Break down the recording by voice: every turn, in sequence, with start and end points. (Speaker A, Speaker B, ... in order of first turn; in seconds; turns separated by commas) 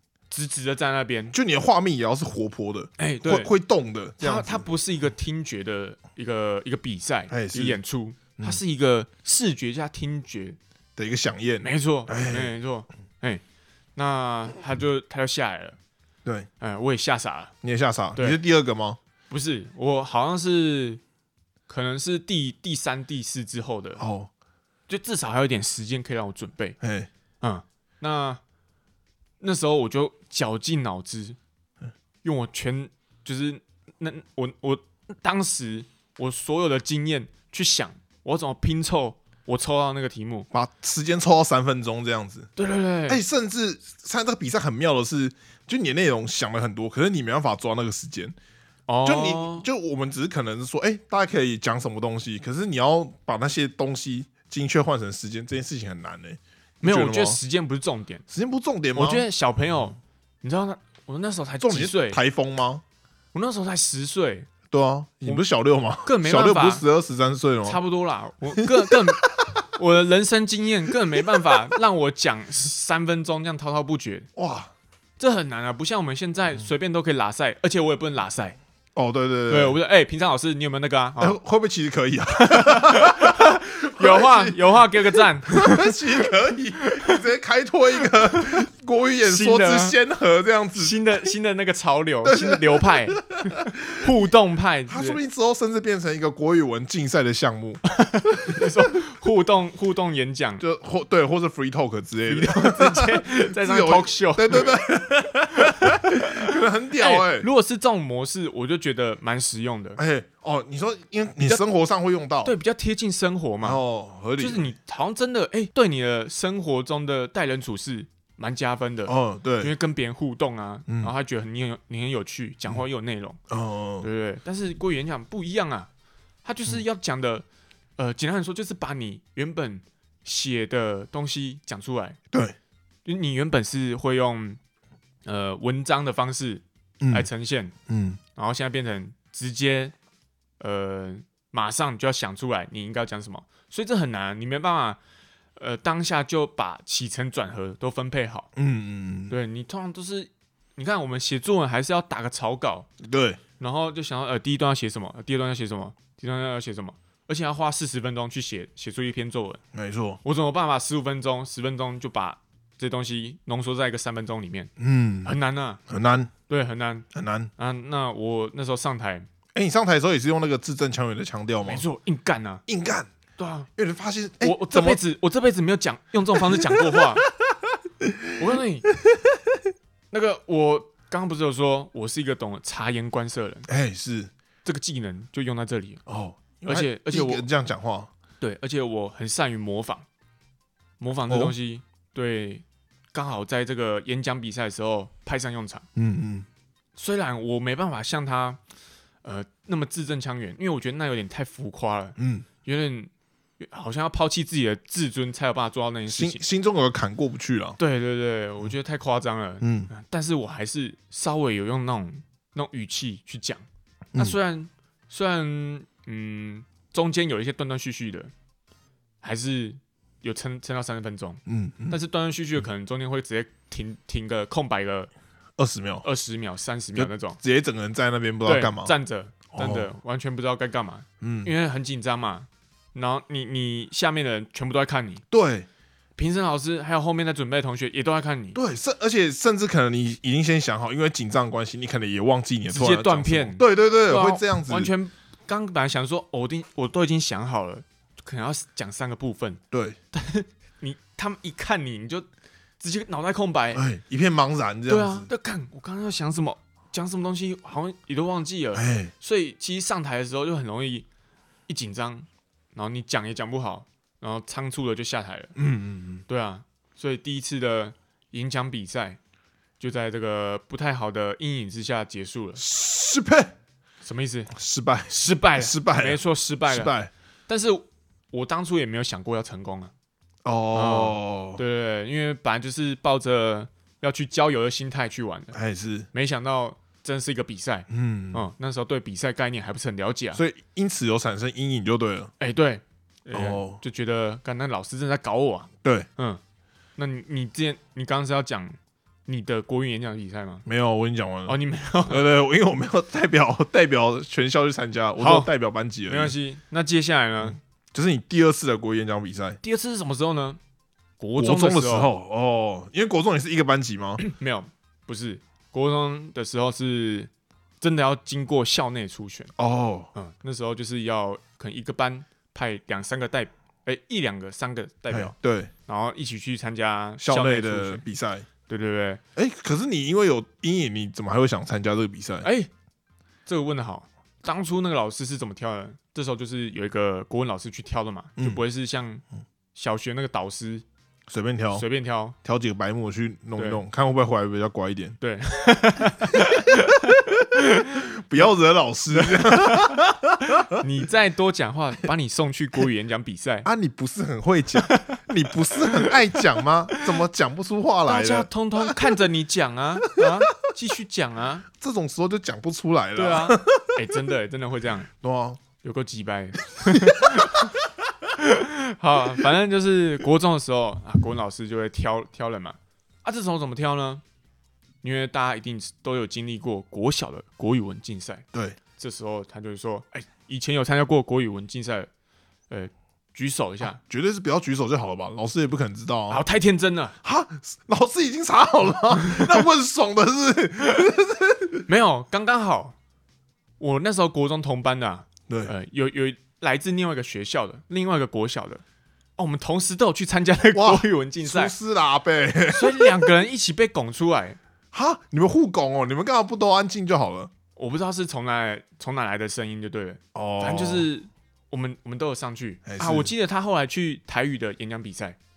Speaker A: 0.3-1.3, Speaker B: 1.3-4.7, Speaker A: 3.0-3.5, Speaker A: 4.2-10.6, Speaker B: 7.3-7.8, Speaker B: 11.0-12.5, Speaker A: 11.6-13.4, Speaker A: 14.0-15.8, Speaker A: 16.6-17.5, Speaker B: 17.6-19.0, Speaker A: 19.3-21.0, Speaker A: 21.7-24.0, Speaker B: 24.0-24.3, Speaker A: 24.9-26.8, Speaker B: 26.8-27.1, Speaker A: 27.4-28.4, Speaker A: 29.4-31.4, Speaker A: 32.2-40.5, Speaker B: 40.5-42.5, Speaker A: 42.6-43.2, Speaker B: 43.1-48.4, Speaker A: 48.9-49.7, Speaker B: 49.0-57.4, Speaker A: 56.8-58.2, Speaker B: 58.3-59.3, Speaker A: 59.0-62.2, Speaker B: 61.6-62.8, Speaker A: 63.3-64.5, Speaker B: 64.7-67.8, Speaker A: 66.0-66.8, Speaker A: 67.7-74.3, Speaker B: 68.6-69.5, Speaker B: 74.4-74.7, Speaker A: 75.2-78.6, Speaker B: 79.0-79.8, Speaker A: 79.5-81.4, Speaker B: 81.2-91.0, Speaker A: 82.4-86.3, Speaker A: 86.8-87.2, Speaker A: 88.2-88.6, Speaker A: 89.2-90.0, Speaker A: 90.8-95.2, Speaker B: 92.2-94.1, Speaker B: 94.9-97.8, Speaker A: 97.9-100.6, Speaker B: 98.5-98.7, Speaker B: 100.6-107.5, Speaker A: 102.3-104.8, Speaker A: 105.5-110.0, Speaker B: 110.0-112.5, Speaker A: 112.4-113.8, Speaker B: 113.6-114.7, Speaker A: 114.4-123.4, Speaker B: 119.1-119.7, Speaker B: 123.5-124.1, Speaker A: 124.0-125.9, Speaker A: 126.5-127.5, Speaker A: 128.0-132.2, Speaker A: 133.1-134.6, Speaker A: 135.2-137.7, Speaker B: 137.0-137.3, Speaker B: 137.9-138.2, Speaker A: 138.3-139.9, Speaker A: 140.6-145.0, Speaker A: 145.6-148.5, Speaker B: 148.6-149.3, Speaker A: 149.3-152.9, Speaker B: 153.0-153.4, Speaker A: 153.6-159.6, Speaker B: 159.7-160.2, Speaker A: 160.2-164.7, Speaker B: 164.8-165.3, Speaker A: 165.2-165.8, Speaker B: 165.9-166.3, Speaker A: 166.5-169.3, Speaker B: 167.1-167.5, Speaker B: 169.5-171.8, Speaker A: 171.7-172.6, Speaker B: 172.7-173.1, Speaker A: 173.4-173.7, Speaker B: 173.8-175.0, Speaker A: 174.4-177.3, Speaker B: 176.4-178.3, Speaker A: 178.4-178.9, Speaker B: 179.0-179.4, Speaker A: 180.1-183.7, Speaker B: 183.7-184.3, Speaker A: 184.7-186.0, Speaker B: 186.1-188.1, Speaker A: 186.7-187.5, Speaker A: 188.4-190.1, Speaker A: 191.0-195.9, Speaker B: 191.3-191.6, Speaker B: 196.0-196.5, Speaker A: 197.0-198.6, Speaker A: 199.2-206.4, Speaker B: 202.2-202.5, Speaker B: 206.1-207.8, Speaker A: 207.8-218.3, Speaker B: 209.6-209.9, Speaker A: 219.2-225.1, Speaker B: 221.5-222.0, Speaker B: 225.6-226.1, Speaker A: 226.0-227.4, Speaker B: 227.0-228.9, Speaker A: 228.4-235.2, Speaker B: 229.5-229.9, Speaker B: 231.2-231.5, Speaker B: 235.3-235.7, Speaker A: 236.2-238.6, Speaker B: 238.5-244.9, Speaker A: 242.7-249.6, Speaker B: 249.7-250.0, Speaker A: 250.1-252.3, Speaker A: 252.8-253.8, Speaker B: 253.7-255.3, Speaker A: 254.9-261.1, Speaker B: 258.8-259.1, Speaker A: 261.7-265.5, Speaker B: 265.6-266.2, Speaker A: 266.3-269.2, Speaker A: 269.8-272.6, Speaker B: 272.6-273.5, Speaker A: 274.0-274.5, Speaker B: 274.5-277.1, Speaker A: 275.1-276.9, Speaker A: 277.5-279.9, Speaker B: 280.4-281.6, Speaker A: 280.7-285.6, Speaker B: 285.5-286.1, Speaker A: 286.1-290.4, Speaker B: 287.9-288.4, Speaker B: 290.4-292.3, Speaker A: 292.4-296.4, Speaker B: 293.3-293.8, Speaker A: 297.0-300.6, Speaker B: 300.6-306.3, Speaker A: 301.5-302.2, Speaker A: 305.2-305.5, Speaker A: 306.1-307.6, Speaker B: 307.9-309.6, Speaker A: 309.6-310.6, Speaker A: 311.2-312.1, Speaker B: 311.4-314.2, Speaker A: 314.2-317.3, Speaker A: 317.8-319.5, Speaker B: 319.6-320.1, Speaker A: 320.1-325.3, Speaker B: 325.1-325.7, Speaker A: 325.9-328.0, Speaker B: 327.2-328.5, Speaker A: 328.7-329.2, Speaker B: 329.4-332.5, Speaker A: 332.4-332.7, Speaker A: 333.5-339.2, Speaker A: 339.8-340.9, Speaker B: 341.3-341.9, Speaker A: 341.7-342.4, Speaker B: 342.4-345.2, Speaker A: 345.2-348.1, Speaker B: 348.0-350.8, Speaker A: 349.1-349.9, Speaker A: 350.8-353.7, Speaker B: 353.6-359.2, Speaker A: 354.8-357.1, Speaker A: 358.1-361.7, Speaker B: 360.1-360.3, Speaker B: 361.7-364.0, Speaker A: 363.2-365.1, Speaker B: 365.2-365.6, Speaker A: 365.8-367.7, Speaker B: 366.9-367.7, Speaker A: 368.3-374.2, Speaker A: 375.0-378.4, Speaker A: 379.0-382.1, Speaker A: 382.7-384.0, Speaker B: 383.8-386.4, Speaker A: 386.3-387.2, Speaker B: 387.2-391.8, Speaker A: 389.2-389.6, Speaker A: 391.9-393.0, Speaker A: 393.8-398.8, Speaker A: 399.4-401.7, Speaker B: 400.7-403.3, Speaker A: 402.7-404.6, Speaker B: 404.9-407.5, Speaker A: 407.8-415.4, Speaker B: 410.3-411.1, Speaker B: 412.9-413.3